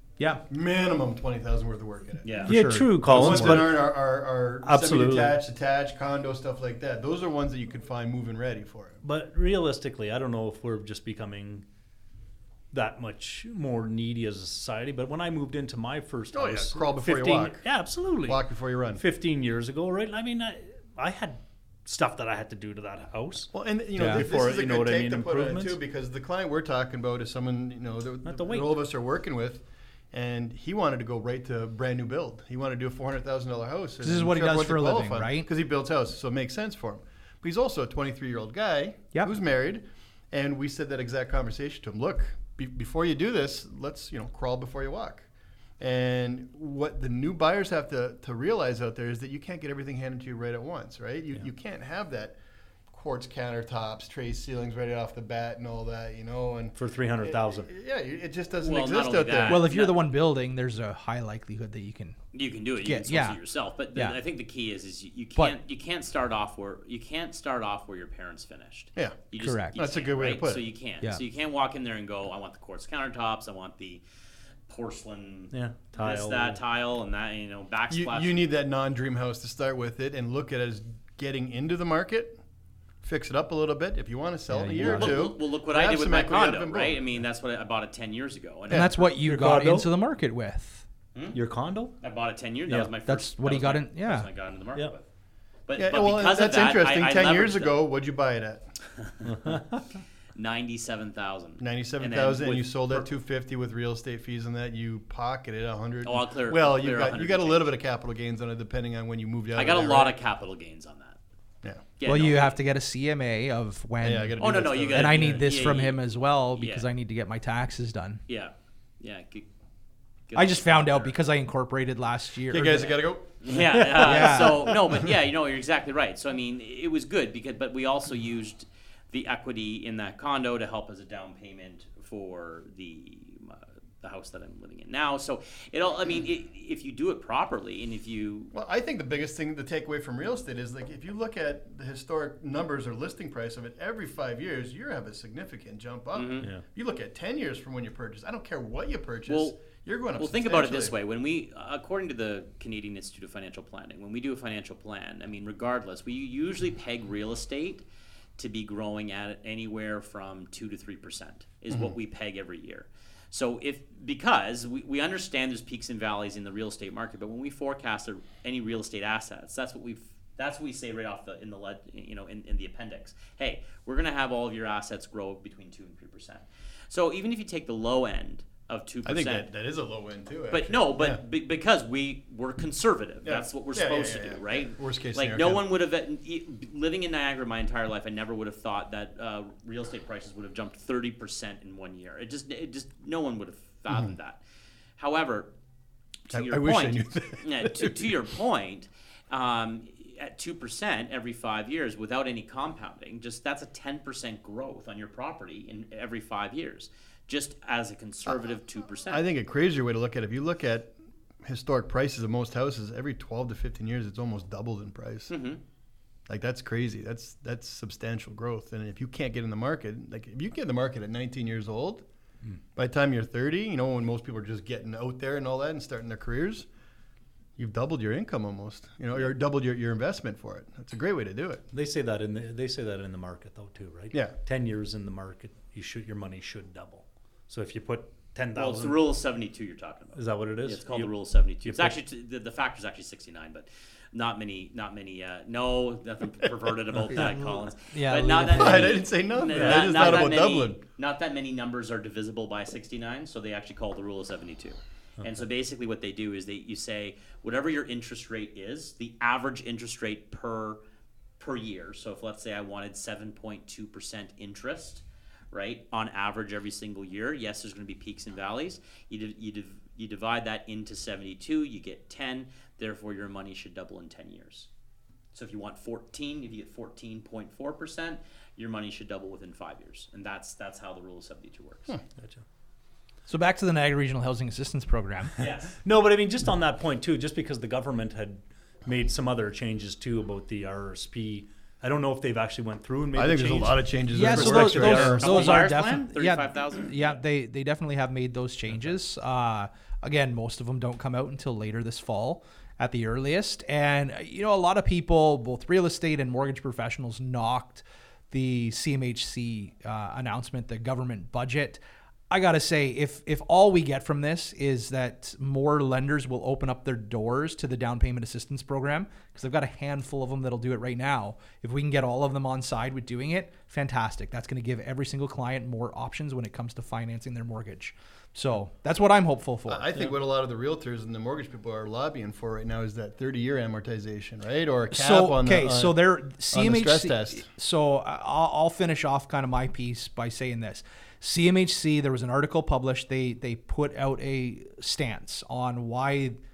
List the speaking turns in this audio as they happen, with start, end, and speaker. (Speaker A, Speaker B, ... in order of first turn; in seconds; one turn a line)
Speaker A: 0.2-0.4
Speaker B: 0.5-2.3
Speaker C: 2.2-2.5
Speaker A: 2.4-3.7
Speaker D: 2.5-4.0
Speaker B: 3.1-9.0
Speaker D: 4.6-5.4
Speaker D: 9.0-11.7
Speaker D: 12.7-25.8
Speaker B: 16.3-17.6
Speaker B: 18.2-19.0
Speaker B: 23.5-45.3
Speaker A: 24.0-24.3
Speaker D: 28.2-28.8
Speaker A: 34.0-35.5
Speaker B: 45.8-52.4
Speaker B: 52.9-59.6
Speaker D: 56.8-57.7
Speaker C: 58.6-60.0
Speaker A: 59.5-62.2
Speaker C: 62.3-74.0
Speaker A: 62.8-63.4
Speaker B: 69.0-69.2
Speaker A: 69.4-69.8
Speaker B: 69.7-70.7
Speaker C: 74.7-78.5
Speaker D: 75.5-76.6
Speaker B: 77.9-82.4
Speaker B: 83.0-87.2
Speaker A: 84.5-85.3
Speaker C: 84.8-89.0
Speaker A: 88.7-90.8
Speaker D: 89.2-89.9
Speaker D: 91.3-92.0
Speaker C: 92.0-95.0
Speaker A: 93.1-94.3
Speaker C: 95.7-97.8
Speaker B: 95.8-98.7
Speaker C: 99.2-99.6
Speaker C: 100.4-103.1
Speaker B: 101.6-110.2
Speaker C: 106.0-107.7
Speaker C: 109.6-111.2
Speaker C: 112.0-112.6
Speaker A: 112.0-114.4
Speaker B: 114.0-115.5
Speaker C: 114.4-116.0
Speaker A: 114.9-118.2
Speaker C: 116.5-116.8
Speaker C: 118.3-119.5
Speaker C: 120.3-121.2
Speaker A: 120.3-123.0
Speaker B: 122.5-124.2
Speaker C: 123.4-138.5
Speaker D: 123.9-124.4
Speaker A: 124.0-124.7
Speaker B: 124.8-125.0
Speaker B: 138.5-151.0
Speaker C: 146.1-146.5
Speaker C: 149.3-149.6
Speaker C: 150.2-157.8
Speaker C: 158.4-179.5
Speaker B: 161.7-162.0
Speaker B: 179.1-181.2
Speaker C: 180.5-194.4
Speaker B: 183.2-185.6
Speaker B: 193.9-194.2
Speaker C: 195.0-195.5
Speaker B: 196.3-198.1
Speaker C: 196.3-209.2
Speaker B: 209.1-215.3
Speaker C: 215.3-215.6
Speaker B: 216.3-222.0
Speaker B: 222.8-226.7
Speaker B: 227.6-231.6
Speaker D: 231.7-239.0
Speaker C: 238.6-260.8
Speaker D: 240.2-242.0
Speaker A: 247.1-249.1
Speaker B: 248.5-250.8
Speaker D: 249.5-250.2
Speaker C: 261.4-274.7
Speaker C: 275.3-282.0
Speaker D: 282.2-282.4
Speaker A: 283.3-285.4
Speaker C: 285.4-285.7
Speaker D: 285.8-295.6
Speaker B: 293.1-295.5
Speaker A: 294.1-330.2
Speaker C: 295.2-297.2
Speaker D: 298.7-299.0
Speaker B: 329.7-337.4
Speaker A: 334.9-346.4